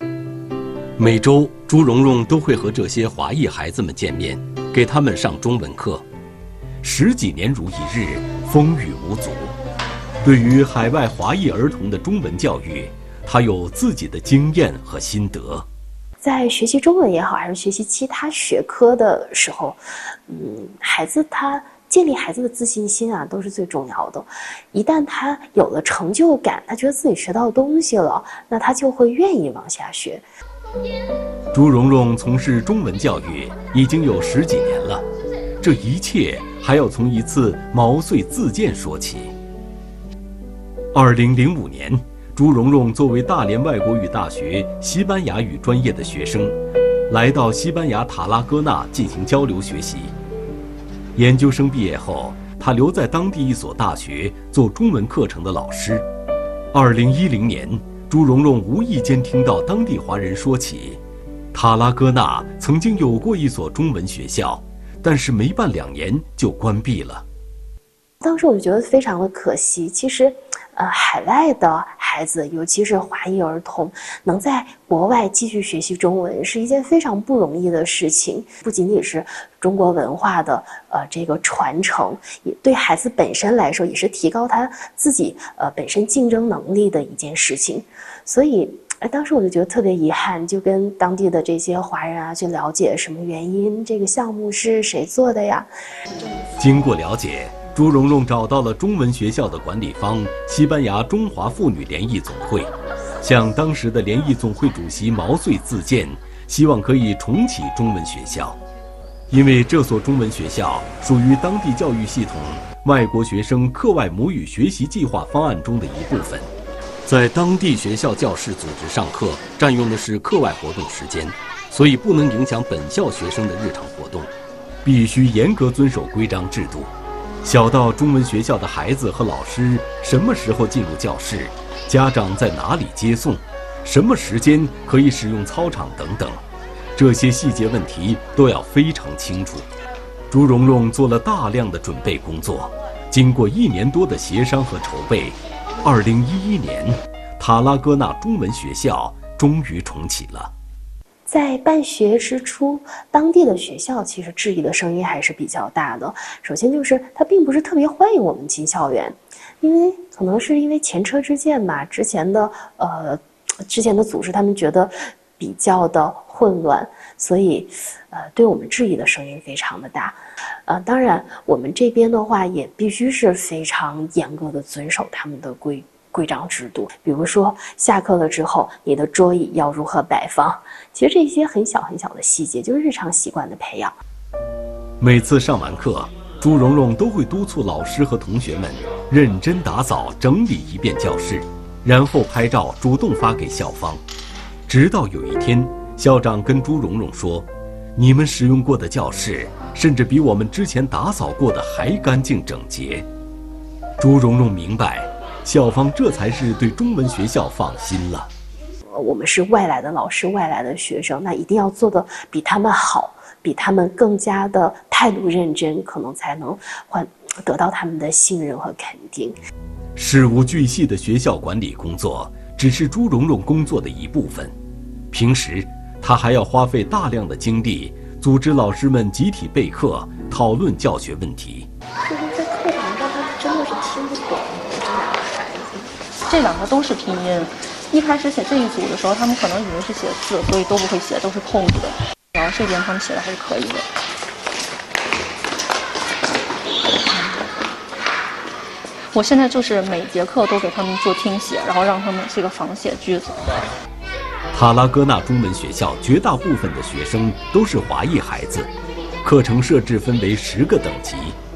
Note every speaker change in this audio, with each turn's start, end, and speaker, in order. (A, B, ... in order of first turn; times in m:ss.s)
0:01.0-0:06.0 A
0:06.8-0:09.5 A
0:10.2-0:15.6 A
0:16.2-0:30.2 B
0:31.5-0:35.0 A
0:35.6-0:39.3 A
0:40.9-0:46.6 A
0:47.1-0:50.1 A
0:51.2-0:56.0 A
0:56.7-1:01.0 A
1:01.5-1:07.2 A
1:08.2-1:35.7 B
1:36.6-1:42.7 A
1:43.2-1:48.6 A
1:49.3-1:56.5 A
1:57.0-2:04.3 A
2:04.8-2:06.9 A
2:07.4-2:16.4 A
2:17.0-2:19.7 A
2:20.3-2:30.5 A
2:31.3-3:04.0 B
3:05.0-3:14.0 A
3:14.7-3:23.0 A
3:24.0-3:28.3 A
3:28.9-3:39.4 B
3:40.0-3:44.5 A
3:45.1-3:51.7 A
3:52.0-3:55.9 B
3:56.3-4:03.8 C
4:09.1-4:13.7 C
4:14.5-4:18.7 A
4:19.2-4:21.4 A